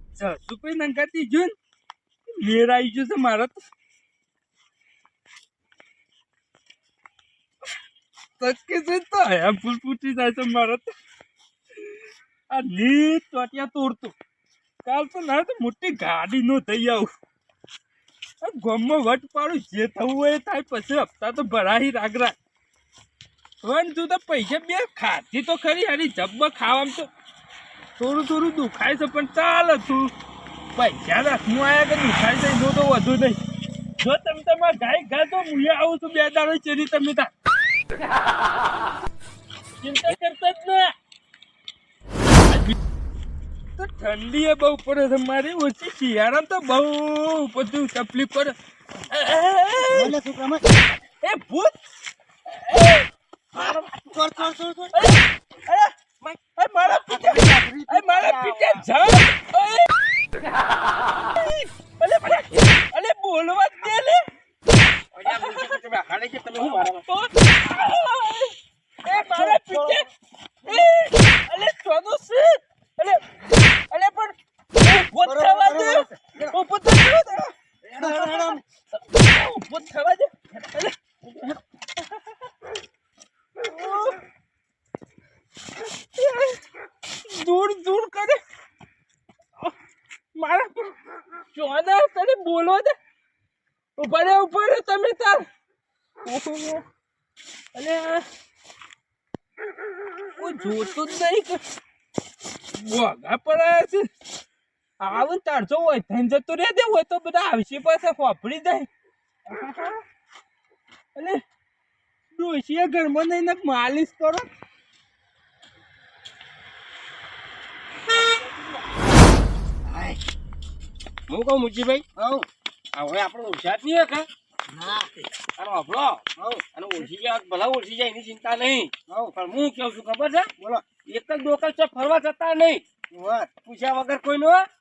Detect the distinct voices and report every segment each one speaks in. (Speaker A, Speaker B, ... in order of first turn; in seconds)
Speaker A: 0.2-1.6, 2.4-3.6, 8.4-10.9, 12.5-14.1, 14.8-17.1, 18.4-22.4, 23.6-27.1, 28.0-30.1, 30.8-33.4, 34.0-37.3, 39.8-40.9, 43.8-48.5, 49.1-50.1, 51.2-51.8, 52.5-53.1, 54.9-59.9, 61.4-64.2, 65.2-65.8, 66.6-68.5, 69.0-70.1, 70.7-73.2, 73.9-82.4, 83.6-84.2, 86.2-86.6, 87.2-88.4, 90.3-91.0, 91.5-93.0, 94.0-95.5, 96.2-96.8, 97.8-98.2, 100.4-101.6, 102.7-104.0, 105.0-108.9, 109.5-110.0, 111.2-111.4, 112.3-114.5
Speaker B: 49.9-50.7, 54.0-55.2, 56.8-58.3, 75.2-76.6, 77.9-78.6, 119.9-120.2, 122.2-122.5, 124.7-125.1, 126.4-126.6, 129.1-129.3, 130.6-130.8, 133.1-133.5
Speaker C: 58.1-58.9, 65.1-67.0, 69.3-69.9, 121.3-122.0, 122.9-124.3, 125.6-126.2, 126.7-130.5, 131.1-132.8, 133.7-134.7